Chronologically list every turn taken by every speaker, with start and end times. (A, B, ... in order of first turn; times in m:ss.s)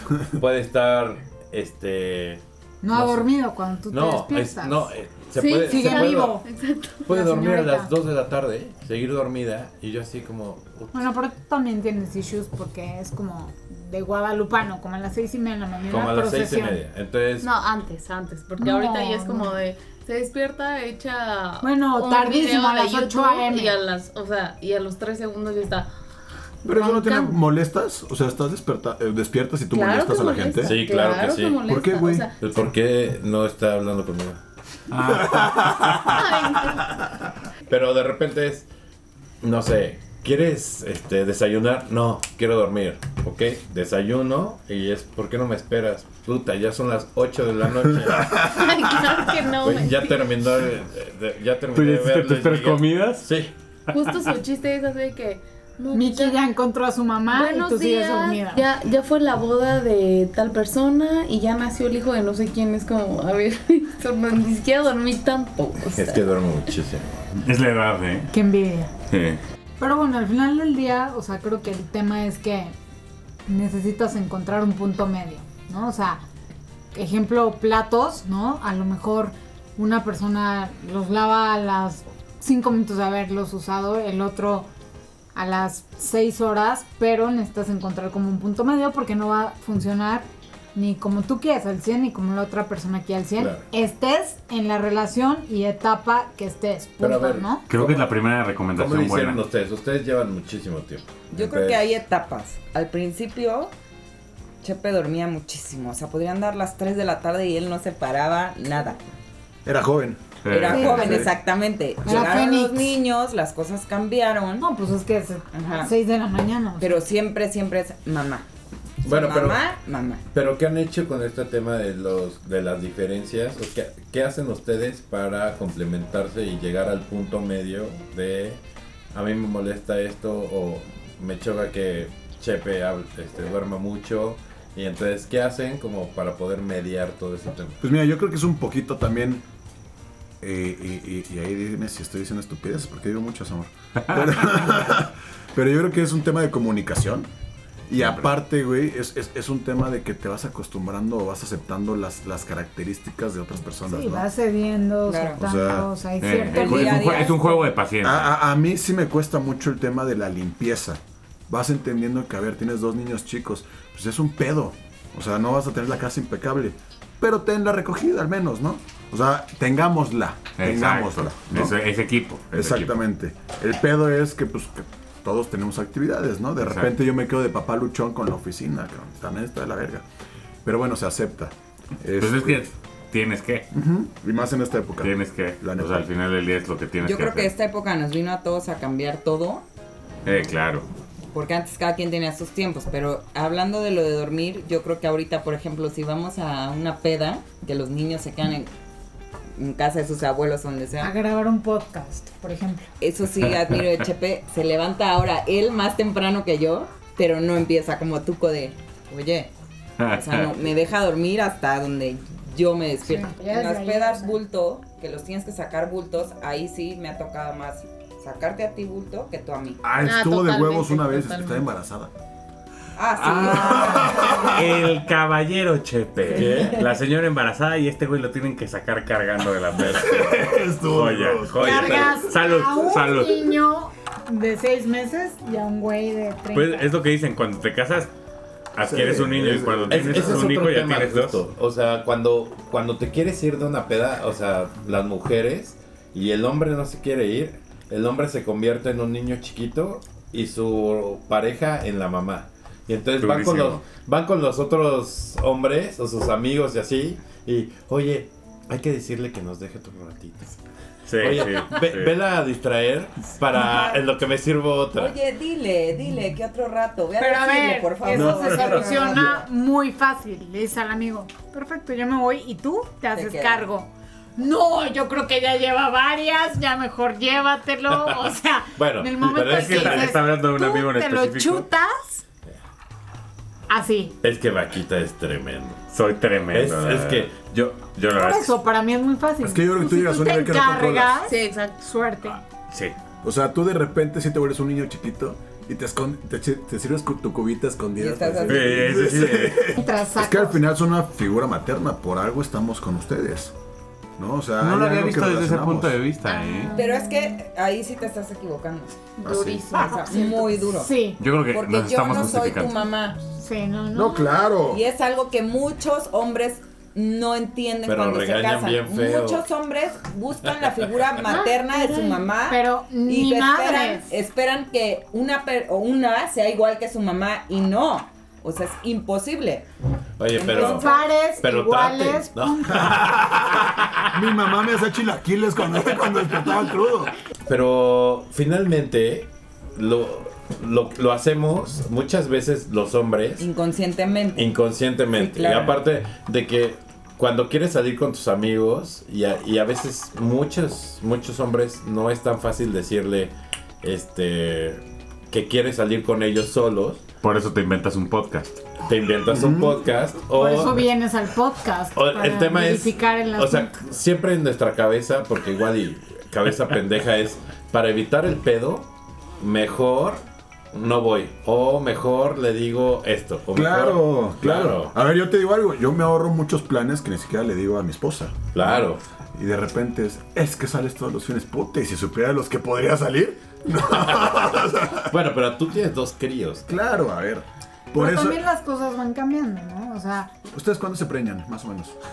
0:00.3-0:03.3 A
0:02.8-0:04.9 B
0:03.9-0:06.4 A
0:05.3-0:07.1 C
0:05.6-0:06.4 B
0:07.0-0:11.1 A
0:07.1-0:07.9 B
0:10.9-0:16.8 B
0:15.9-0:17.5 A
0:17.4-0:25.9 C
0:18.6-0:19.6 B
0:21.6-0:23.8 B
0:26.6-0:27.4 C
0:26.6-0:30.8 D
0:29.7-0:32.4 C
0:30.6-0:31.6 A
0:31.7-0:32.3 D
0:32.4-0:34.4 A
0:34.9-0:36.0 E
0:35.1-0:36.1 D
0:36.1-0:36.9 C
0:37.7-0:38.7 A
0:39.4-0:48.6 A
0:48.1-0:48.6 D
0:48.5-0:50.3 C
0:49.6-0:53.5 A
0:51.7-0:53.3 E
0:53.9-0:56.4 C
0:53.9-0:54.2 E
0:55.9-0:58.6 B
0:57.3-1:06.2 C
1:05.9-1:07.0 A
1:07.3-1:08.3 E
1:08.3-1:08.9 B
1:09.1-1:09.4 E
1:09.8-1:12.7 B
1:13.5-1:16.2 B
1:16.9-1:24.7 B
1:25.3-1:37.6 B
1:33.4-1:33.6 A
1:37.0-1:38.1 A
1:37.7-1:39.4 E
1:38.7-1:42.0 A
1:41.3-1:43.7 F
1:44.6-1:49.0 F
1:49.6-1:51.3 D
1:50.4-1:51.3 E
1:50.5-1:54.6 F
1:52.0-1:53.0 B
1:54.6-1:57.0 B
1:55.5-1:55.9 F
1:56.8-1:58.4 F
1:59.0-1:59.6 A
1:59.0-2:00.2 F
2:00.3-2:08.6 A
2:09.1-2:17.8 A
2:17.8-2:19.4 D
2:20.4-2:27.3 D
2:27.9-2:34.2 D
2:28.0-2:28.2 E
2:33.9-2:37.3 B
2:35.1-2:35.4 F
2:35.4-2:35.9 D
2:36.2-2:38.3 E
2:36.4-2:37.7 F
2:38.0-2:51.8 D
2:50.6-2:52.9 E
2:52.5-3:00.0 D
2:56.6-2:56.9 E
3:00.6-3:02.6 D
3:02.2-3:03.7 E
3:03.7-3:06.1 D
3:05.0-3:07.5 E
3:07.0-3:09.6 F
3:10.2-3:10.9 E
3:11.3-3:18.7 F
3:19.6-3:21.1 F
3:21.0-3:22.9 B
3:23.0-3:29.5 F
3:30.0-3:30.5 E
3:30.0-3:39.8 F
3:33.0-3:34.4 B
3:39.8-3:42.1 D
3:40.0-3:41.6 C
3:43.0-3:44.6 F
3:43.1-3:53.6 E
3:43.5-3:44.8 D
3:46.3-3:46.8 A
3:46.3-3:46.7 F
3:49.8-3:52.0 D
3:51.5-3:52.3 A
3:51.6-3:56.9 B
3:56.5-3:58.1 E
3:58.7-4:01.4 E
3:58.8-4:00.6 D
3:59.9-4:20.6 A
4:13.2-4:13.8 E
4:21.1-4:22.1 E
4:21.2-4:25.2 A
4:23.5-4:24.0 F
4:24.9-4:29.4 F
4:27.2-4:42.2 B
4:28.1-4:29.1 E
4:33.1-4:33.7 F
4:37.9-4:38.2 A
4:38.7-4:40.2 A
4:39.4-4:41.7 E
4:43.7-4:44.1 B
4:44.2-4:45.8 A
4:45.9-4:48.6 E
4:46.5-4:47.8 A
4:48.1-4:52.4 B
4:49.4-4:51.3 D
4:51.2-4:51.9 C
4:52.7-4:53.0 E
4:53.2-5:03.5 D
4:58.0-4:59.1 F
4:58.5-4:59.8 E
4:59.8-5:00.6 B
5:04.2-5:06.0 D
5:04.6-5:06.7 E
5:06.2-5:07.2 B
5:06.7-5:09.1 F
5:09.2-5:10.4 C
5:09.2-5:09.6 D
5:09.7-5:10.9 F
5:09.8-5:11.2 B
5:11.2-5:12.8 E
5:11.5-5:13.2 F
5:13.3-5:14.5 B
5:13.9-5:14.8 D
5:14.7-5:29.7 F
5:17.8-5:19.5 A
5:21.4-5:22.2 C
5:21.8-5:24.0 B
5:30.2-5:34.0 A
5:30.3-5:30.9 F
5:30.5-5:33.0 B
5:32.7-5:37.1 D
5:37.4-5:43.5 A
5:43.4-5:44.6 F
5:44.3-5:57.0 A
5:45.1-5:45.8 F
5:57.2-5:58.6 E
5:58.8-6:00.9 A
5:59.3-5:59.8 D
6:00.3-6:03.7 B
6:01.9-6:08.9 A
6:09.4-6:10.2 A
6:10.7-6:14.9 A
6:13.5-6:25.1 D
6:18.5-6:19.0 A
6:25.0-6:26.6 A
6:26.7-6:28.4 D
6:27.9-6:30.3 B
6:30.5-6:32.0 D